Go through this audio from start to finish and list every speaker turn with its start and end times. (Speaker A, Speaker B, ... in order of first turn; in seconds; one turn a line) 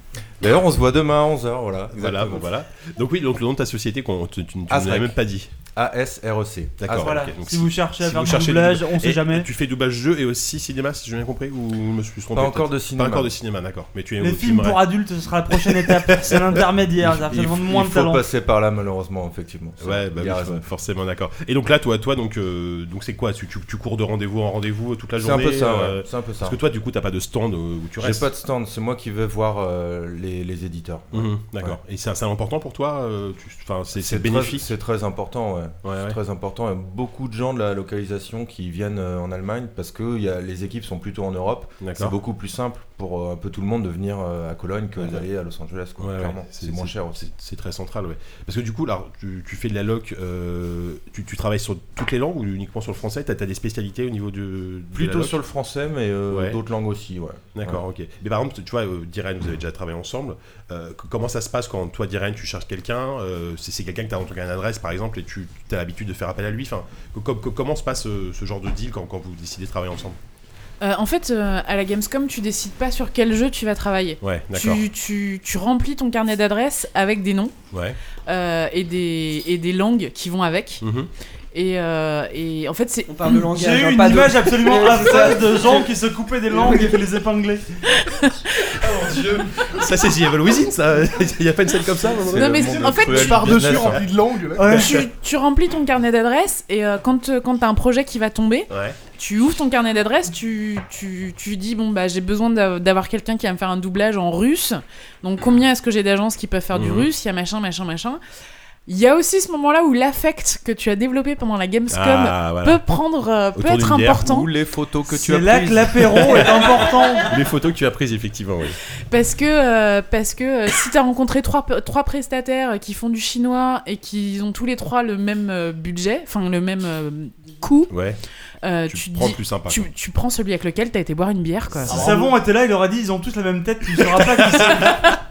Speaker A: 0.4-2.5
Speaker B: 1.9-5.5
Speaker A: 4.7-7.2
Speaker B: 6.8-14.8
Speaker C: 7.0-9.5
Speaker A: 12.3-13.3
Speaker C: 14.2-18.2
Speaker B: 15.5-16.4
Speaker A: 17.0-20.6
Speaker B: 19.8-28.3
Speaker A: 25.2-26.6
Speaker A: 28.0-31.8
Speaker B: 31.1-34.7
Speaker A: 33.9-47.3
Speaker B: 35.8-36.2
Speaker B: 41.8-42.1
Speaker B: 45.0-45.2
Speaker B: 46.0-55.4
Speaker A: 54.9-57.8
Speaker B: 56.3-56.6
Speaker B: 57.5-70.2
Speaker D: 70.8-77.5
Speaker B: 74.2-74.8
Speaker B: 77.7-78.0
Speaker D: 78.3-80.8
Speaker B: 80.8-81.1
Speaker D: 81.5-83.2
Speaker E: 83.1-85.9
Speaker C: 83.3-87.7
Speaker E: 86.6-86.9
Speaker D: 87.9-88.8
Speaker B: 88.8-92.9
Speaker A: 92.2-94.0
Speaker D: 92.3-93.8
Speaker F: 93.0-94.8
Speaker B: 93.7-94.0
Speaker C: 94.6-95.0
Speaker D: 94.7-108.2
Speaker B: 94.7-95.1
Speaker B: 98.7-99.0
Speaker B: 106.7-107.1
Speaker D: 108.9-114.5
Speaker B: 111.9-112.8
Speaker B: 113.5-114.3
Speaker A: 114.2-116.6
Speaker C: 115.1-117.3
Speaker B: 116.0-118.8
Speaker D: 119.1-127.9
Speaker B: 127.9-128.2
Speaker D: 128.6-132.0
Speaker B: 128.9-129.9
Speaker C: 131.8-135.1
Speaker F: 131.9-132.3
Speaker B: 134.2-135.0